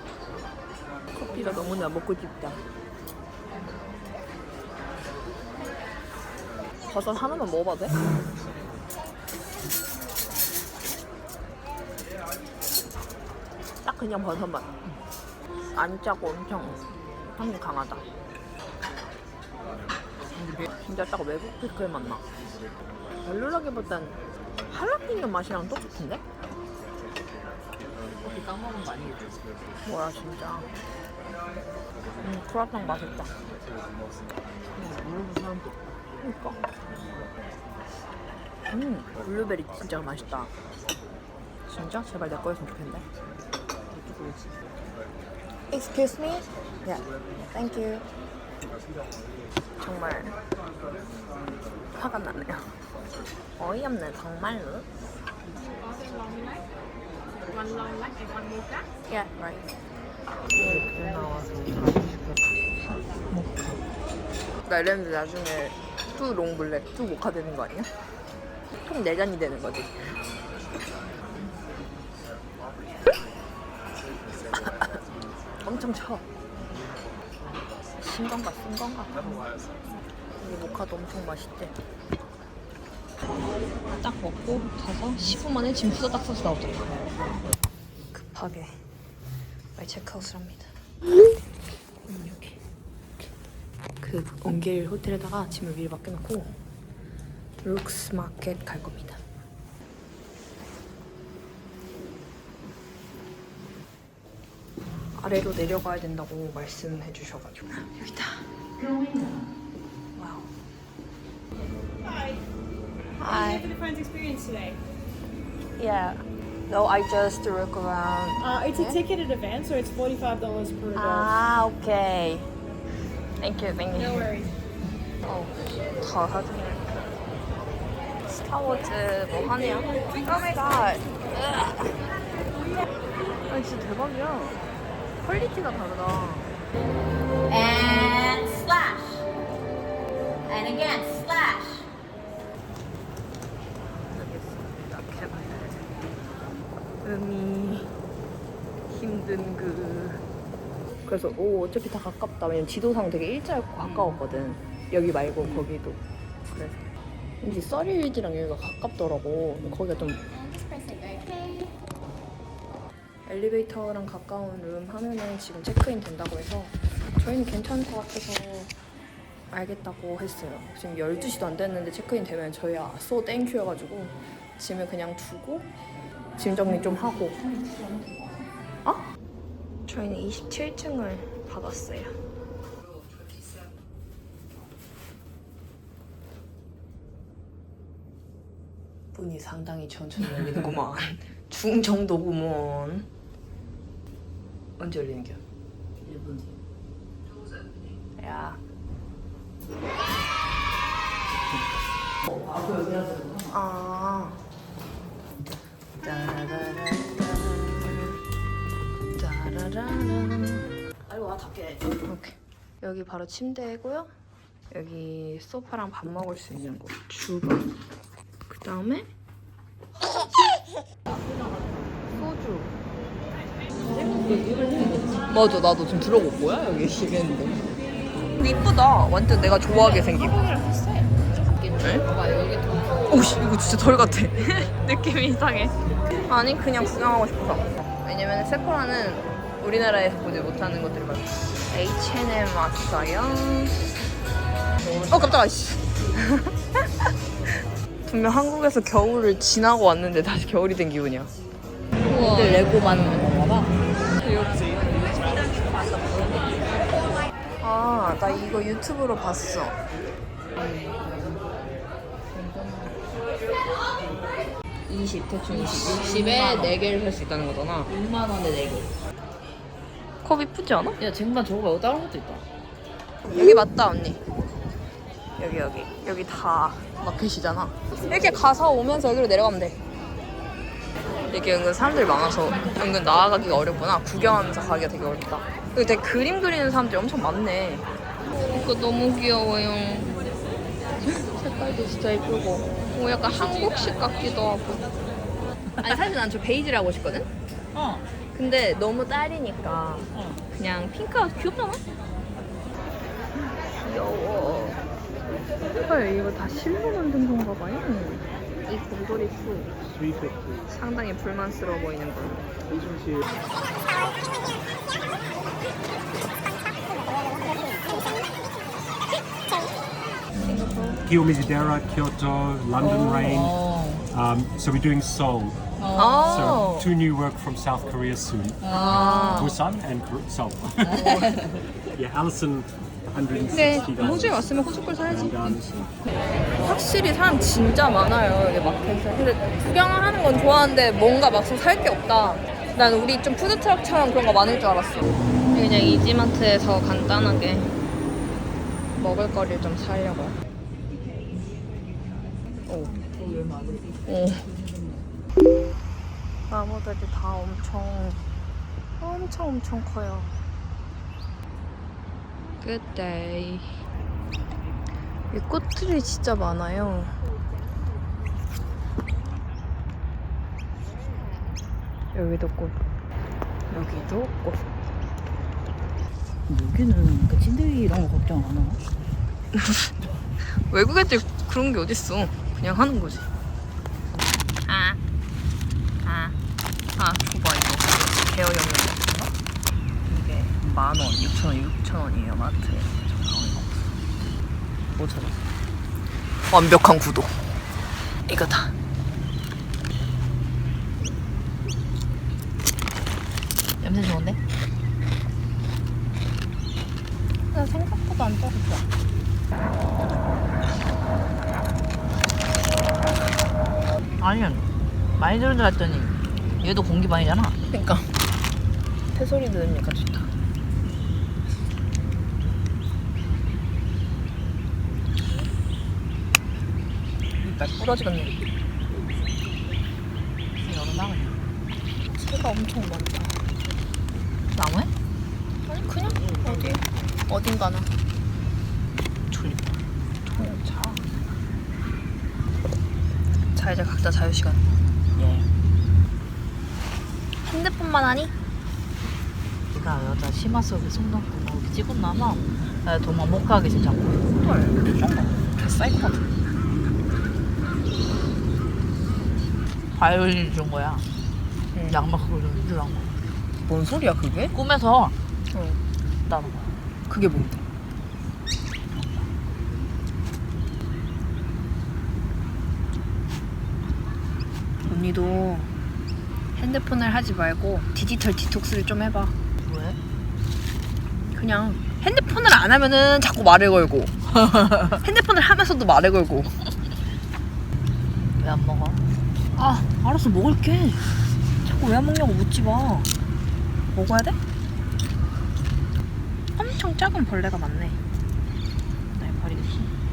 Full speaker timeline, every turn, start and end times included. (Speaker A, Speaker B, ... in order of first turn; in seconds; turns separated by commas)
Speaker A: 1.1-2.6, Speaker A: 6.9-8.0, Speaker A: 13.8-14.7, Speaker A: 15.7-18.1, Speaker B: 20.4-20.6, Speaker A: 20.8-22.2, Speaker A: 23.2-26.2, Speaker B: 28.2-29.3, Speaker A: 29.8-30.7, Speaker A: 32.2-33.4, Speaker B: 34.7-36.0, Speaker A: 36.2-36.6, Speaker A: 38.7-40.5, Speaker B: 39.8-40.2, Speaker A: 41.7-43.0, Speaker B: 43.9-44.5, Speaker A: 45.7-48.1, Speaker A: 49.8-50.4, Speaker A: 51.9-52.8, Speaker A: 53.6-54.9, Speaker A: 59.1-59.6, Speaker A: 60.5-63.8, Speaker A: 64.6-67.9, Speaker A: 68.8-70.1, Speaker A: 75.6-76.3, Speaker A: 78.0-79.4, Speaker A: 80.4-81.7, Speaker A: 84.0-87.0, Speaker A: 88.1-88.8, Speaker A: 89.8-90.7, Speaker A: 92.0-92.6, Speaker A: 94.0-96.6, Speaker A: 97.6-99.2, Speaker A: 105.1-108.5, Speaker B: 108.8-109.4, Speaker A: 110.2-110.5, Speaker C: 112.0-112.4, Speaker A: 113.2-113.7, Speaker C: 113.3-114.8, Speaker A: 115.8-119.0, Speaker C: 118.4-121.3, Speaker A: 120.9-122.5, Speaker A: 123.4-124.3, Speaker C: 124.0-124.5, Speaker A: 125.2-127.3, Speaker A: 128.3-132.0, Speaker A: 133.4-134.6, Speaker A: 135.2-136.6, Speaker D: 137.5-139.2, Speaker D: 140.5-141.8, Speaker A: 144.1-146.0, Speaker A: 147.0-148.0, Speaker A: 148.9-150.2, Speaker A: 151.1-156.9, Speaker A: 157.4-160.2, Speaker A: 163.2-168.7, Speaker A: 169.5-175.7, Speaker A: 176.4-177.6, Speaker B: 177.6-178.1, Speaker A: 179.8-182.2, Speaker A: 189.1-193.1, Speaker A: 194.8-195.4, Speaker B: 196.0-196.6, Speaker A: 198.2-198.6, Speaker B: 202.2-203.5, Speaker A: 203.5-204.4, Speaker A: 206.0-208.2, Speaker A: 209.1-210.7, Speaker B: 211.1-211.9, Speaker A: 212.0-214.1, Speaker A: 214.7-217.7, Speaker A: 218.5-219.1, Speaker A: 222.1-222.8, Speaker A: 224.0-224.4, Speaker B: 224.1-225.1, Speaker A: 225.1-227.7, Speaker A: 228.3-230.5, Speaker B: 231.5-232.9, Speaker A: 231.8-232.1, Speaker A: 233.1-243.8, Speaker A: 245.0-246.6, Speaker B: 245.0-245.4, Speaker A: 248.1-251.3, Speaker A: 252.0-253.2, Speaker B: 252.0-253.8, Speaker A: 254.1-255.6, Speaker A: 257.6-259.8, Speaker A: 262.3-263.0, Speaker A: 264.9-267.9, Speaker B: 265.5-266.8, Speaker B: 267.9-268.9, Speaker A: 270.2-271.0, Speaker B: 271.0-272.4, Speaker A: 273.3-274.2, Speaker A: 275.4-279.8, Speaker A: 281.3-290.1, Speaker A: 291.0-294.9, Speaker A: 295.8-297.3, Speaker B: 297.7-298.1, Speaker A: 298.3-301.8, Speaker B: 300.1-300.4, Speaker A: 303.8-304.8, Speaker A: 305.7-309.8, Speaker A: 310.7-312.5, Speaker A: 320.3-321.0, Speaker E: 321.1-323.6, Speaker B: 322.8-324.0, Speaker E: 324.1-325.6, Speaker B: 325.8-326.6, Speaker A: 325.9-326.9, Speaker E: 326.2-328.7, Speaker B: 328.6-329.5, Speaker A: 328.7-329.6, Speaker E: 329.3-331.3, Speaker B: 330.8-331.6, Speaker E: 331.9-335.9, Speaker A: 333.5-335.6, Speaker A: 336.6-347.7, Speaker A: 348.9-350.4, Speaker A: 352.6-353.0, Speaker B: 353.1-354.0, Speaker A: 354.1-354.5, Speaker A: 356.5-358.2, Speaker A: 359.0-360.4, Speaker A: 362.6-363.8, Speaker A: 365.3-367.2, Speaker A: 372.1-372.8, Speaker A: 373.7-374.7, Speaker B: 376.5-378.8, Speaker A: 379.5-383.3, Speaker A: 384.6-385.0, Speaker A: 386.0-386.4, Speaker A: 387.0-389.3, Speaker A: 390.1-393.9, Speaker B: 395.0-395.4, Speaker A: 396.5-397.4, Speaker A: 398.3-398.7, Speaker B: 403.8-404.4, Speaker A: 407.5-408.9, Speaker B: 414.2-417.6, Speaker A: 417.7-418.1, Speaker A: 419.1-420.3, Speaker B: 427.4-427.8, Speaker A: 427.7-428.4, Speaker B: 430.6-431.4, Speaker A: 432.1-433.5, Speaker B: 434.5-434.9, Speaker A: 435.7-437.9, Speaker B: 439.3-439.8, Speaker A: 440.2-441.1, Speaker A: 443.5-444.7, Speaker B: 445.1-445.5, Speaker A: 447.4-448.3, Speaker B: 449.7-454.3, Speaker A: 454.3-456.2, Speaker B: 454.9-455.3, Speaker B: 459.9-461.1, Speaker A: 461.7-462.0, Speaker B: 461.9-463.1, Speaker A: 463.6-464.5, Speaker B: 464.5-465.1, Speaker A: 465.5-465.8, Speaker B: 466.2-466.8, Speaker A: 467.1-467.6, Speaker B: 468.9-469.3, Speaker A: 474.8-475.7, Speaker A: 476.5-479.4, Speaker B: 479.6-480.0, Speaker A: 481.3-484.1, Speaker B: 484.3-485.0, Speaker A: 485.0-486.7, Speaker B: 488.4-489.0, Speaker B: 489.6-491.1, Speaker A: 491.6-493.1, Speaker A: 493.9-494.4, Speaker A: 496.6-498.0, Speaker B: 499.1-499.9